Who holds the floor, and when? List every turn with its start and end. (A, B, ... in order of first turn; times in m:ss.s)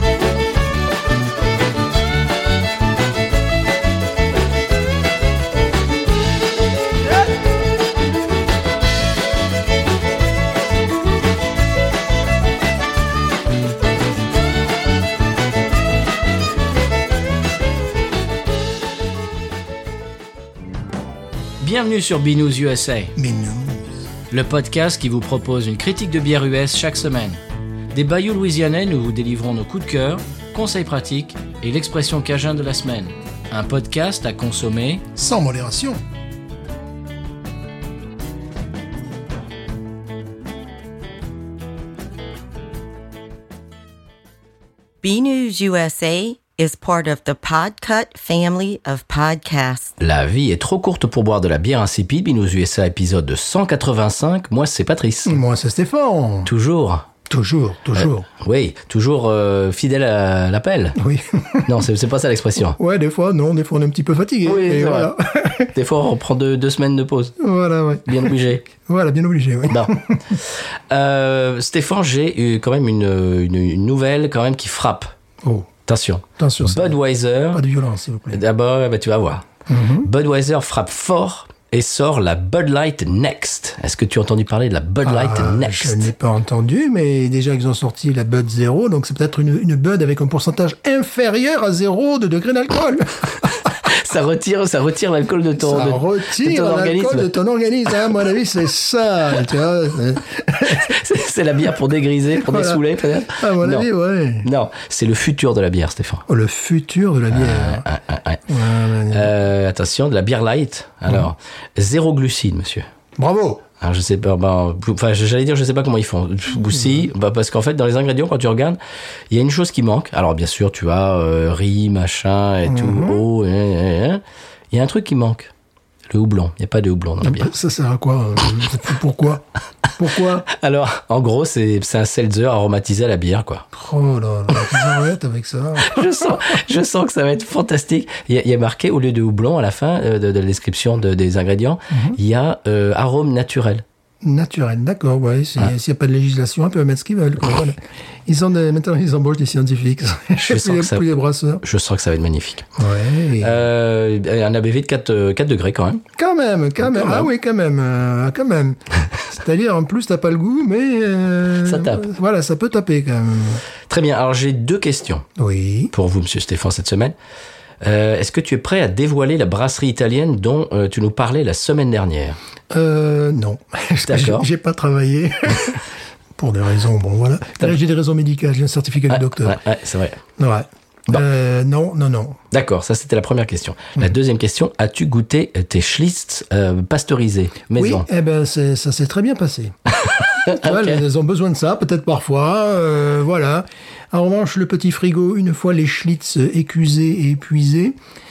0:21.6-0:23.1 A
0:23.2-0:23.8 B
0:24.3-0:27.4 A
0:27.9-0:35.0 A
0:35.2-0:36.0 B
0:45.0-0:49.9 C
0:50.0-0:55.4 A
0:55.2-0:56.5 B
0:56.4-0:57.1 A
0:57.3-0:58.3 B
0:58.0-1:01.0 A
1:01.0-1:01.7 B
1:01.6-1:02.8 A
1:02.8-1:05.7 B
1:04.4-1:05.1 A
1:05.7-1:07.3 A
1:07.4-1:10.4 B
1:08.0-1:08.7 A
1:09.7-1:15.1 A
1:15.4-1:15.7 B
1:15.8-1:17.6 A
1:16.4-1:17.0 B
1:17.5-1:18.4 B
1:18.3-1:19.5 A
1:19.7-1:20.1 B
1:20.0-1:26.1 A
1:25.0-1:33.7 B
1:33.4-1:37.3 A
1:35.6-1:41.0 B
1:40.7-1:43.9 A
1:42.4-1:44.5 B
1:44.4-1:46.2 A
1:46.3-1:47.8 B
1:47.3-1:48.4 A
1:48.5-1:49.3 B
1:49.1-1:52.9 A
1:53.2-1:53.6 B
1:53.8-1:58.8 A
1:56.7-1:57.0 B
1:59.3-2:05.5 A
2:02.6-2:03.2 B
2:06.1-2:07.5 A
2:07.2-2:09.4 B
2:10.0-2:10.5 B
2:10.4-2:13.7 A
2:13.7-2:16.6 B
2:15.8-2:23.8 A
2:21.9-2:22.2 B
2:24.2-2:31.6 B
2:30.4-2:31.1 A
2:31.6-2:32.7 A
2:32.8-2:33.6 B
2:33.4-2:36.0 A
2:36.2-2:43.6 B
2:36.8-2:37.3 A
2:41.6-2:42.1 A
2:43.9-2:45.2 A
2:45.4-2:45.9 B
2:45.9-2:47.1 A
2:47.8-2:52.4 A
2:52.7-2:59.6 B
2:54.0-2:54.5 A
2:59.1-3:00.2 A
3:00.4-3:02.4 B
3:02.5-3:08.0 A
3:07.7-3:09.8 B
3:10.0-3:11.0 A
3:10.4-3:18.0 B